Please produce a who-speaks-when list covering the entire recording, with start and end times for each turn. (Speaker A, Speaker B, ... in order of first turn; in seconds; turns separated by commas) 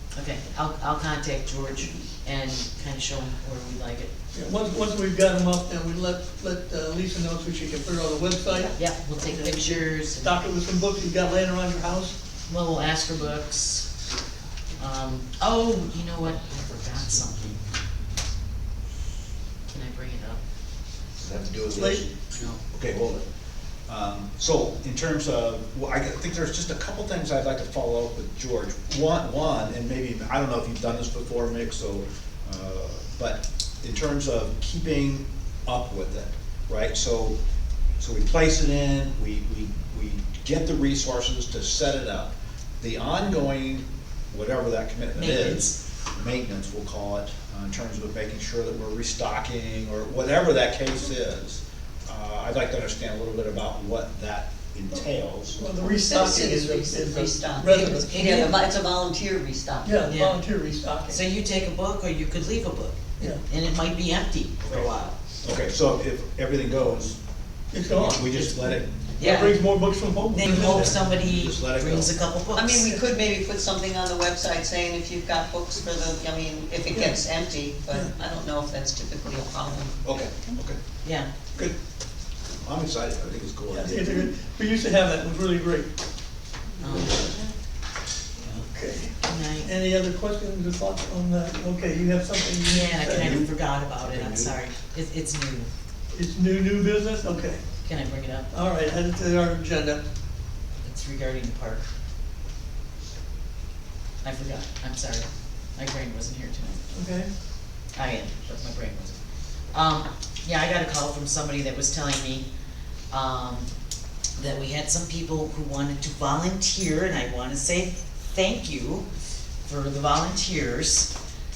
Speaker A: 0.1-4.1, Speaker B: 4.3-12.2, Speaker A: 8.7-10.4, Speaker A: 12.5-13.9, Speaker A: 14.8-17.6, Speaker A: 19.7-20.4, Speaker C: 21.2-22.2, Speaker B: 21.7-22.1, Speaker A: 22.3-22.6, Speaker C: 22.7-23.3, Speaker C: 23.9-37.4, Speaker C: 38.0-55.6, Speaker A: 45.1-45.8, Speaker B: 54.9-58.6, Speaker D: 55.8-59.9, Speaker A: 57.7-58.5, Speaker B: 59.8-61.2, Speaker A: 60.0-60.4, Speaker A: 61.1-65.2, Speaker C: 64.7-67.2, Speaker B: 67.7-68.4, Speaker C: 67.9-68.9, Speaker A: 68.1-69.6, Speaker B: 69.2-71.0, Speaker A: 70.3-72.9, Speaker C: 70.5-72.2, Speaker D: 72.5-80.0, Speaker B: 76.9-77.2, Speaker C: 80.0-80.8, Speaker C: 82.6-84.2, Speaker B: 83.7-85.9, Speaker A: 86.8-87.3, Speaker B: 87.0-87.3, Speaker B: 88.6-93.4, Speaker A: 89.2-89.7, Speaker A: 92.7-95.7, Speaker C: 93.1-94.6, Speaker B: 96.1-97.6, Speaker A: 97.8-98.5, Speaker B: 98.5-100.0, Speaker A: 100.8-101.8, Speaker A: 104.2-106.8, Speaker B: 106.9-107.3, Speaker A: 107.9-109.2, Speaker A: 109.7-112.5, Speaker A: 113.1-113.7, Speaker A: 114.4-119.1, Speaker A: 119.6-121.1